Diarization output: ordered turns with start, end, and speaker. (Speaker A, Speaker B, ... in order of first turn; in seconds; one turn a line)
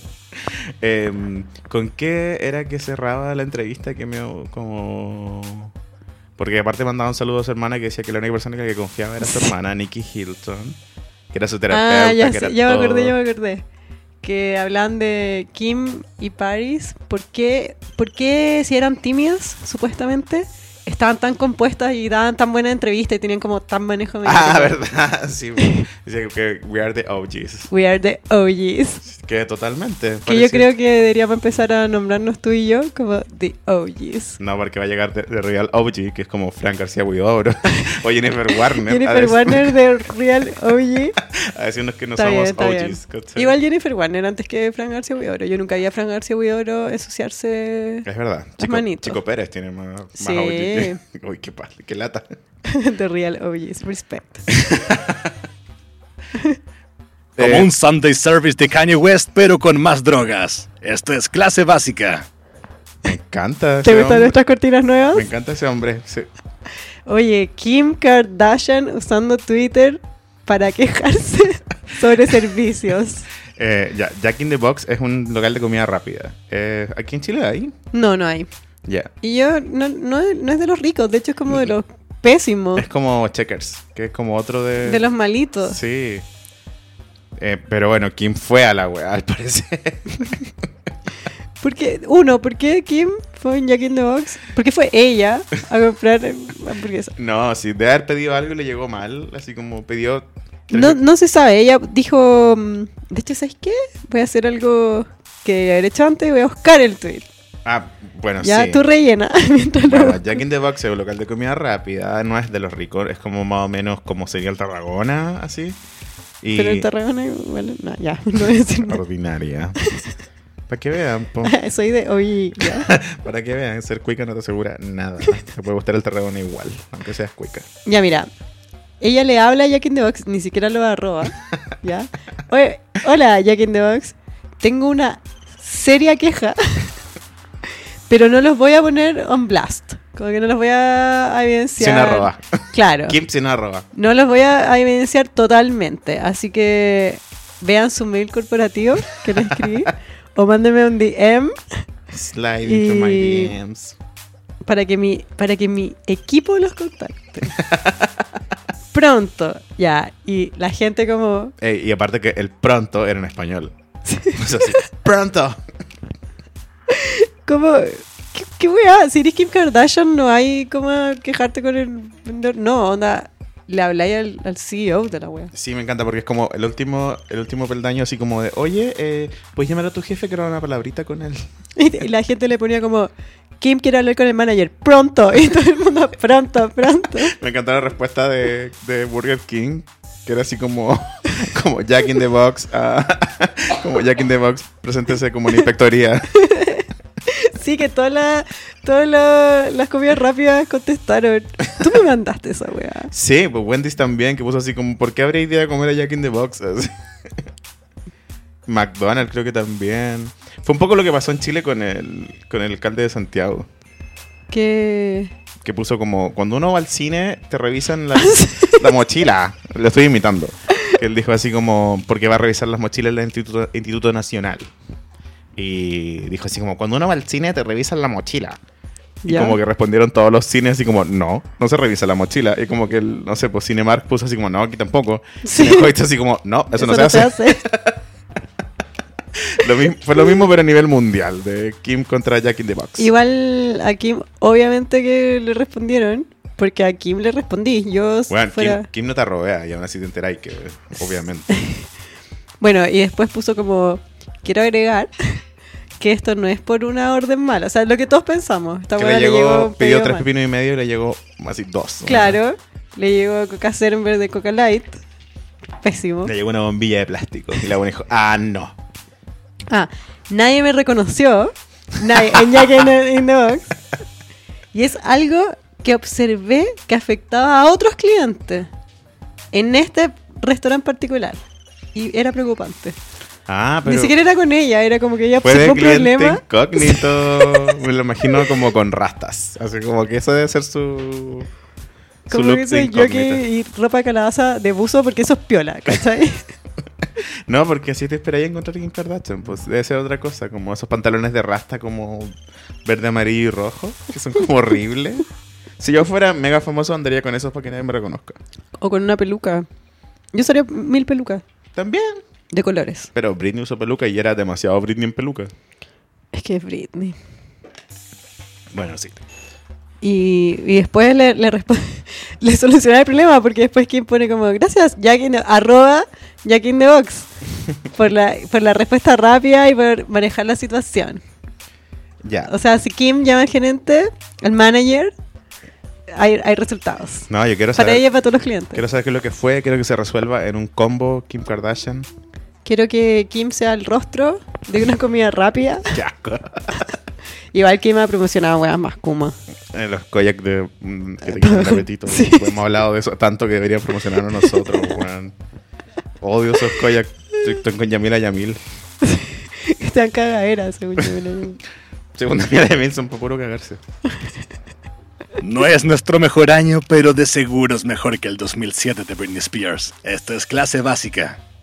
Speaker A: 0.5-5.7
Speaker A: 6.4-10.8
Speaker A: 11.3-13.2
Speaker B: 11.7-13.6
Speaker B: 14.2-24.8
Speaker A: 24.2-27.7
Speaker B: 27.7-29.0
Speaker A: 29.1-30.7
Speaker B: 30.3-34.4
Speaker A: 34.4-39.8
Speaker B: 38.5-41.2
Speaker A: 41.2-43.6
Speaker B: 42.2-48.1
Speaker A: 48.0-52.3
Speaker B: 48.6-49.2
Speaker B: 50.2-51.0
Speaker B: 52.7-54.6
Speaker A: 54.6-55.4
Speaker A: 57.4-57.7
Speaker C: 57.4-62.3
Speaker A: 63.0-64.4
Speaker B: 63.8-65.3
Speaker A: 65.1-66.3
Speaker B: 67.1-73.3
Speaker A: 73.6-77.8
Speaker B: 77.9-78.5
Speaker A: 78.9-79.1
Speaker B: 79.2-82.9
Speaker A: 82.8-85.0
Speaker B: 84.8-85.8
Speaker A: 85.6-86.2
Speaker A: 87.4-90.4
Speaker B: 91.6-97.2
Speaker A: 97.2-101.0
Speaker B: 100.7-107.3
Speaker A: 107.7-108.8
Speaker B: 108.4-110.4
Speaker A: 109.9-115.8
Speaker A: 116.4-116.9
Speaker B: 116.5-119.0
Speaker A: 118.8-119.8
Speaker A: 120.7-121.5
Speaker B: 121.4-122.9
Speaker A: 122.6-127.7
Speaker B: 127.8-128.3
Speaker B: 129.0-136.9
Speaker B: 138.1-143.2
Speaker A: 141.8-143.9
Speaker B: 143.9-151.6
Speaker A: 149.3-149.9
Speaker A: 152.1-154.0
Speaker B: 152.6-153.6
Speaker B: 154.7-157.6
Speaker A: 157.5-158.1
Speaker B: 158.9-161.5
Speaker A: 161.6-163.7
Speaker B: 164.1-164.8
Speaker A: 164.3-165.6
Speaker B: 166.9-175.5
Speaker A: 175.5-181.4
Speaker B: 181.8-187.3
Speaker A: 187.2-196.3
Speaker B: 196.3-203.1
Speaker A: 203.1-207.4
Speaker A: 208.7-213.7
Speaker B: 214.5-215.3
Speaker A: 215.6-224.7
Speaker B: 218.2-218.8
Speaker A: 225.6-228.6
Speaker B: 229.2-229.6
Speaker A: 229.3-238.0
Speaker B: 235.4-235.9
Speaker B: 236.7-237.6
Speaker A: 239.3-243.1
Speaker B: 243.0-248.9
Speaker A: 248.3-251.5
Speaker B: 251.6-251.8
Speaker B: 252.6-255.4
Speaker B: 256.0-260.2
Speaker A: 259.0-262.4
Speaker B: 262.1-265.0
Speaker B: 265.8-266.3
Speaker A: 266.2-268.8
Speaker B: 269.7-273.8
Speaker B: 274.7-278.7
Speaker B: 279.5-281.4
Speaker B: 281.9-283.0
Speaker A: 283.5-284.1
Speaker B: 283.9-287.8
Speaker A: 285.4-291.5
Speaker A: 292.3-293.4
Speaker B: 292.3-296.5
Speaker A: 297.5-302.3
Speaker A: 302.9-305.3
Speaker A: 305.8-308.4
Speaker B: 308.8-309.7
Speaker B: 310.3-311.4
Speaker A: 311.8-312.2
Speaker B: 312.5-313.1
Speaker A: 313.1-315.5
Speaker B: 316.3-317.2
Speaker A: 318.7-319.2
Speaker B: 320.0-327.3
Speaker B: 327.9-331.2
Speaker A: 332.2-332.5
Speaker B: 332.5-335.1
Speaker B: 336.1-338.8
Speaker A: 337.3-338.1
Speaker A: 338.7-342.1
Speaker B: 342.6-346.0
Speaker A: 345.9-346.9
Speaker B: 347.5-349.4
Speaker A: 349.7-355.3
Speaker B: 351.3-352.5
Speaker B: 354.5-354.9
Speaker A: 356.2-358.6
Speaker B: 359.0-361.6
Speaker A: 362.1-363.8
Speaker C: 365.4-371.4